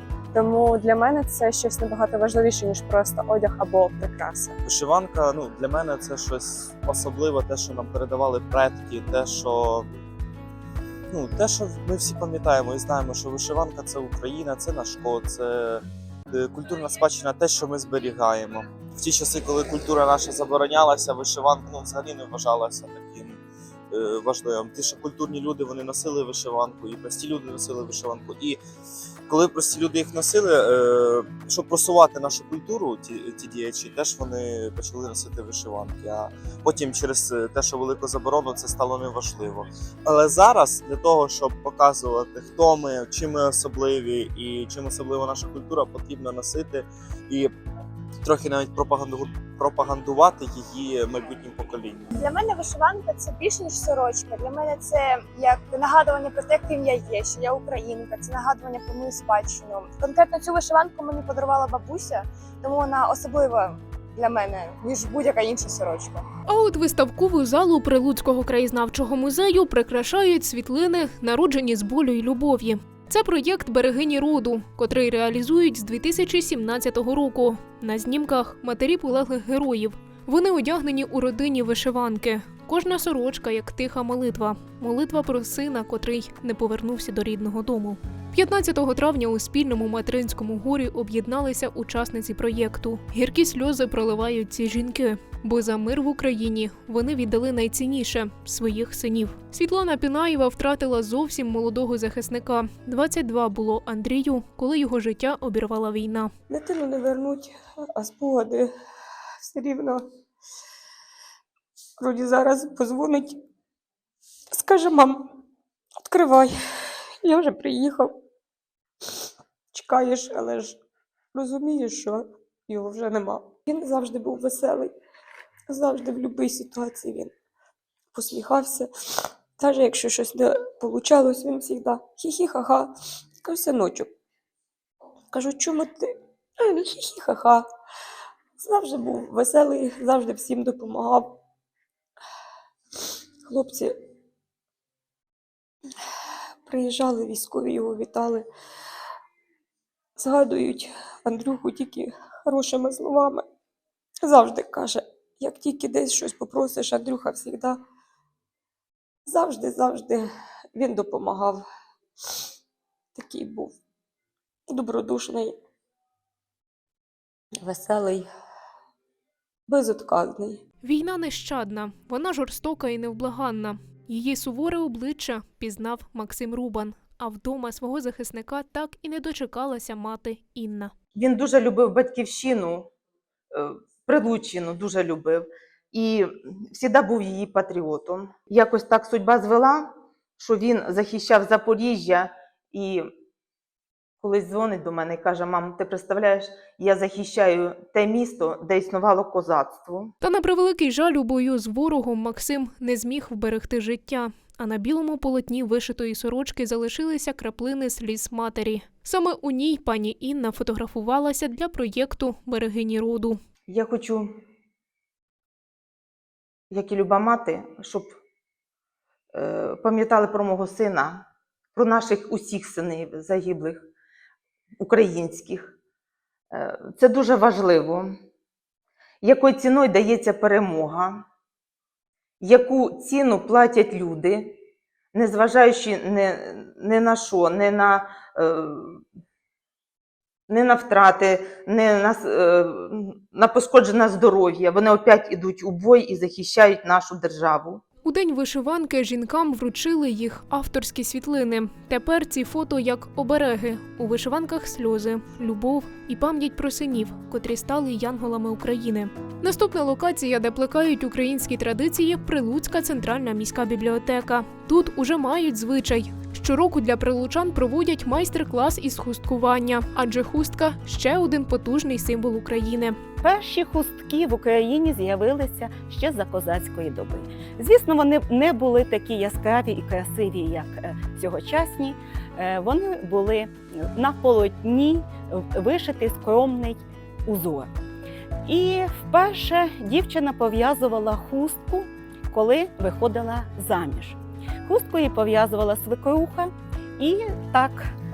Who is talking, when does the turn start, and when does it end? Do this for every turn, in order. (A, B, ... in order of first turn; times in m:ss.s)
0:00.3-0:04.5 A
0:04.6-0:09.9 B
0:11.1-0:23.4 B
0:23.9-0:28.6 B
0:29.3-0:47.5 B
0:48.2-0:52.1 B
0:52.2-1:06.2 C
1:06.5-1:46.3 D
1:46.5-1:48.7 E
1:49.4-1:50.0 E
1:52.0-1:53.4 E
1:54.5-1:55.3 E
1:56.0-1:56.5 E
1:57.2-1:58.2 E
1:59.7-2:00.8 E
2:01.3-2:04.9 E
2:05.7-2:07.3 E
2:08.1-2:08.9 E
2:09.6-2:12.9 E
2:13.4-2:14.1 E
2:15.3-2:17.6 E
2:18.6-2:21.4 E
2:23.5-2:23.9 E
2:26.6-2:28.5 E
2:30.2-2:33.4 E
2:34.2-2:37.8 E
2:39.3-2:41.6 E
2:43.2-2:43.8 E
2:44.7-2:45.6 E
2:47.6-2:48.3 E
2:49.7-2:50.6 E
2:50.8-3:00.9 D
3:01.2-3:02.9 F
3:03.5-3:13.1 F
3:14.2-3:20.1 F
3:20.2-3:33.4 D
3:33.7-3:34.3 F
3:36.7-3:38.1 F
3:39.3-3:43.9 F
3:44.8-3:45.7 F
3:46.5-3:48.1 F
3:49.2-3:51.2 F
3:52.4-3:54.6 F
3:55.1-3:59.0 F
4:00.5-4:07.8 F
4:08.0-4:33.0 D
4:33.2-4:47.7 G
4:48.5-4:57.9 G